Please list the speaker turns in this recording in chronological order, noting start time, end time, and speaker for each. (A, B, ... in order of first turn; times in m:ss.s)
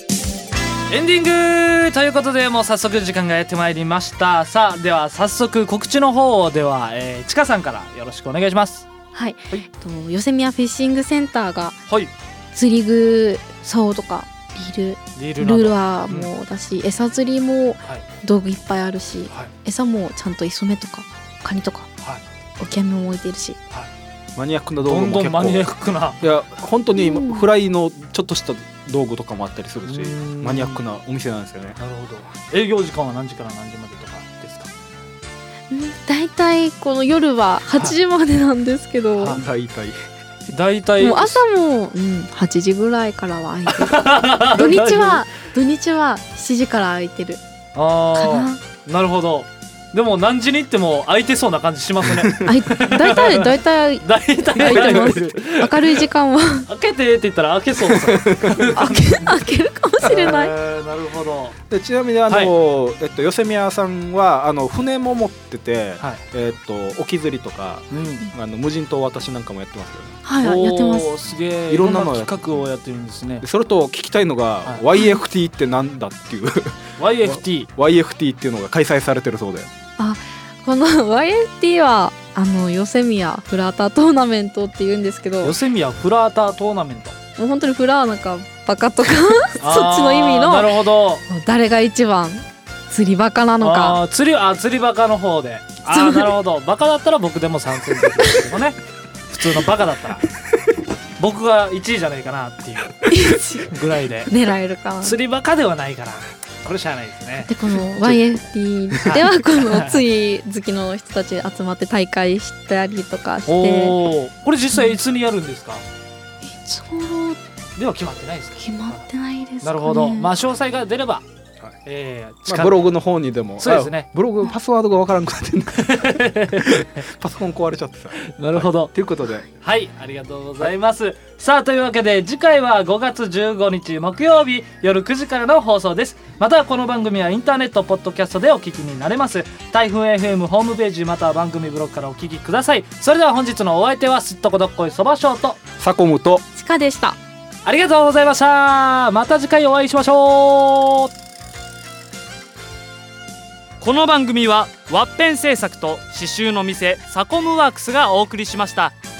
0:00.9-0:08.9 A
0:09.1-0:11.8 B
0:12.5-0:21.9 B
0:15.2-0:16.3 A
0:22.6-0:23.6 B
0:24.4-0:25.7 C
0:24.8-0:26.2 A
0:26.2-0:31.8 C
0:27.0-0:27.5 B
0:29.9-0:30.8 A
0:31.8-0:34.8 A
0:35.7-0:39.4 B
0:39.2-0:39.4 A
0:39.3-0:40.0 C
0:40.5-0:41.4 A
0:41.0-0:47.4 B
0:43.7-0:45.2 A
0:47.8-0:56.0 A
0:48.1-0:48.6 B
0:52.4-0:56.7 B
0:56.7-0:59.4 A
0:57.9-0:58.6 C
0:58.8-1:00.6 B
1:00.0-1:01.6 A
1:01.7-1:10.2 C
1:02.3-1:02.5 A
1:07.9-1:08.3 A
1:10.2-1:11.2 B
1:10.4-1:13.5 A
1:11.7-1:12.5 C
1:13.4-1:19.7 C
1:15.0-1:15.2 B
1:17.0-1:17.7 A
1:20.0-1:25.6 B
1:25.4-1:27.2 A
1:27.4-1:34.0 B
1:29.6-1:31.2 A
1:33.6-1:40.3 A
1:35.9-1:36.4 B
1:41.2-1:43.1 A
1:43.1-1:45.2 B
1:43.7-1:44.3 A
1:45.0-1:48.2 A
1:47.4-1:54.0 B
1:49.0-1:50.0 A
1:53.5-1:55.8 A
1:56.4-1:57.4 B
1:57.8-1:59.0 A
1:58.6-2:00.4 B
1:59.6-2:01.2 A
2:01.8-2:02.9 A
2:02.5-2:09.5 C
2:03.6-2:04.1 A
2:05.7-2:07.0 A
2:08.3-2:08.9 A
2:09.6-2:25.6 A
2:25.8-2:26.4 C
2:26.6-2:27.2 B
2:27.6-2:31.1 A
2:33.8-2:39.0 A